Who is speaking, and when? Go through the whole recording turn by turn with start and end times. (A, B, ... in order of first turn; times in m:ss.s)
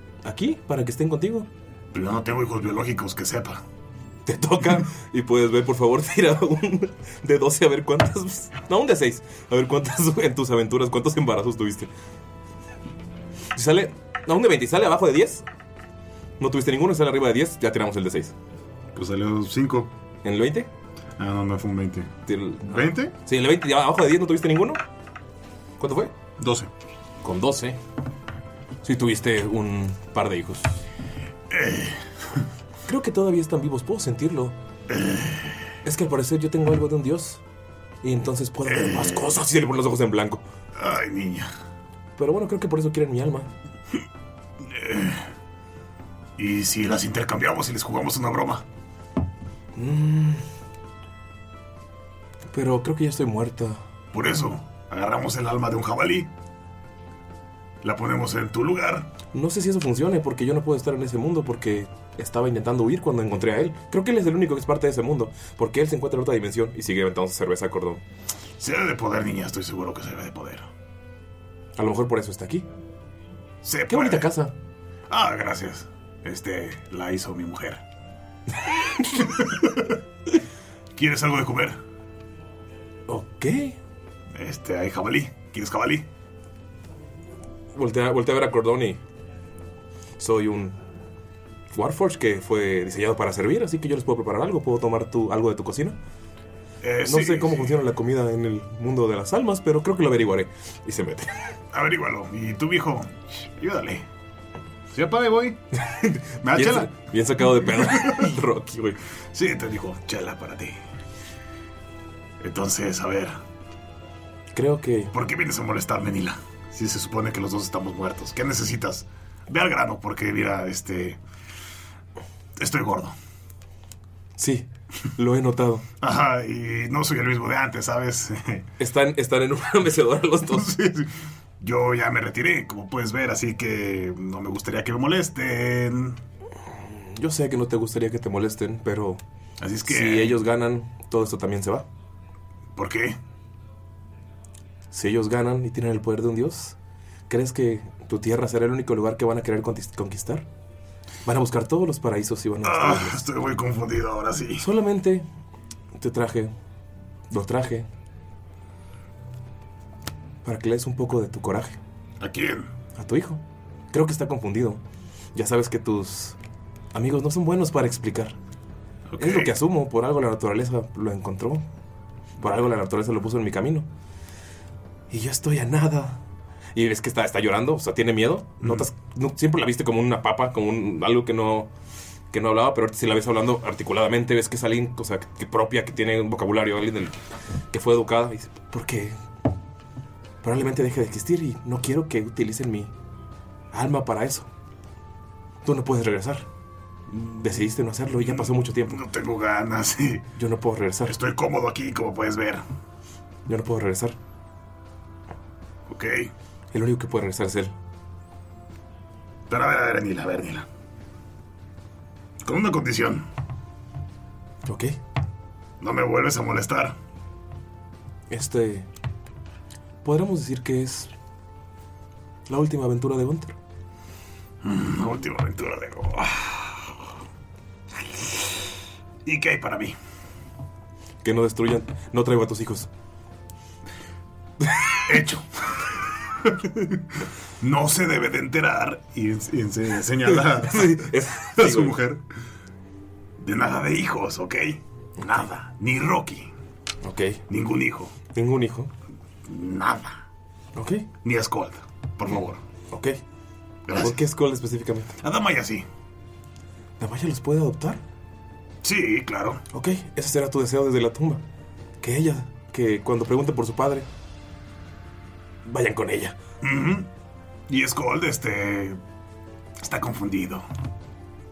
0:00.2-0:01.5 A
0:01.9-0:03.6 B
0:04.3-0:11.9 A
0:13.6-0:15.4 A
0:16.4-0:18.3 A
0:18.9-0:19.9 B
0:20.2-0:20.7 A
0:21.2-0:22.1 B
0:22.3-0:24.8 A
0:22.6-0:23.1 B
0:25.8-0:26.1 A
0:26.4-0:26.7 B
0:27.2-0:27.8 A
0:28.8-0:30.8 A
0:31.5-0:32.4 B
0:32.9-0:34.6 A
0:34.9-0:35.5 B
0:35.8-0:37.4 A
0:38.0-0:40.4 A
0:38.7-0:39.3 B
0:40.7-0:41.5 B
0:42.2-0:43.5 A
0:44.6-0:45.3 B
0:46.4-0:48.6 B
0:49.8-0:50.4 A
0:52.5-0:53.8 A
0:54.1-0:56.3 B
0:57.8-0:59.1 B
0:59.3-1:08.0 A
1:08.6-1:10.7 B
1:11.8-1:12.7 A
1:13.6-1:14.3 B
1:13.9-1:14.5 A
1:15.1-1:17.8 B
1:19.2-1:19.5 B
1:21.0-1:21.8 B
1:23.1-1:23.8 A
1:24.3-1:26.1 B
1:27.7-1:29.0 A
1:30.2-1:30.8 A
1:31.7-1:36.0 A
1:36.8-1:37.8 B
1:37.0-1:41.4 A
1:41.7-1:44.1 B
1:44.9-1:45.6 B
1:45.8-1:49.0 A
1:46.4-1:46.9 B
1:47.7-1:48.2 B
1:49.3-1:50.8 B
1:52.4-1:53.4 B
1:54.5-1:55.1 A
1:55.1-2:01.2 B
2:02.6-2:03.2 B
2:04.4-2:05.8 A
2:06.0-2:08.7 B
2:08.8-2:10.7 A
2:10.5-2:16.2 B
2:16.8-2:19.2 A
2:19.6-2:20.4 B
2:19.8-2:21.9 A
2:22.8-2:23.2 B
2:24.9-2:26.8 A
2:27.3-2:30.5 A
2:31.3-2:33.2 A
2:32.6-2:34.7 B
2:34.6-2:35.2 A
2:36.0-2:36.5 A
2:37.3-2:37.9 A
2:40.4-2:41.8 A
2:42.2-2:42.7 B
2:43.0-2:43.4 A
2:43.9-2:44.8 A
2:45.3-2:46.4 A
2:46.9-2:48.4 A
2:49.1-2:49.6 B
2:49.2-2:51.6 A
2:52.4-2:53.9 A
2:55.1-2:56.2 A
2:56.7-3:01.7 A
2:58.6-2:58.9 B
3:02.3-3:07.2 A
3:07.7-3:09.2 A
3:10.4-3:12.9 A
3:13.7-3:14.5 A
3:15.6-3:16.5 A
3:17.1-3:19.0 A
3:18.1-3:20.2 B
3:20.4-3:21.2 A
3:21.0-3:22.6 B
3:23.5-3:24.2 A
3:25.9-3:26.3 B
3:26.7-3:27.7 A
3:29.5-3:30.7 B
3:32.4-3:33.3 B
3:34.6-3:35.0 A
3:35.8-3:37.0 B
3:38.3-3:38.9 A
3:40.0-3:41.1 A
3:42.5-3:43.6 A
3:44.6-3:46.9 B
3:49.2-3:50.0 B
3:51.2-3:52.9 A
3:55.0-3:55.9 B
3:56.4-3:57.0 B
3:57.6-4:02.2 B
4:00.3-4:02.0 A
4:03.4-4:06.5 B
4:07.0-4:07.4 A
4:07.5-4:08.2 B
4:08.3-4:08.9 A
4:09.4-4:10.2 B
4:10.8-4:11.1 A
4:11.2-4:12.6 B
4:12.9-4:13.2 A
4:13.9-4:14.2 B
4:13.9-4:15.1 A
4:15.2-4:15.9 B
4:17.0-4:18.0 A
4:18.8-4:19.6 B
4:19.7-4:21.4 A
4:22.0-4:24.1 A
4:25.6-4:26.4 A
4:26.6-4:27.1 B
4:27.7-4:29.0 B
4:29.8-4:30.7 B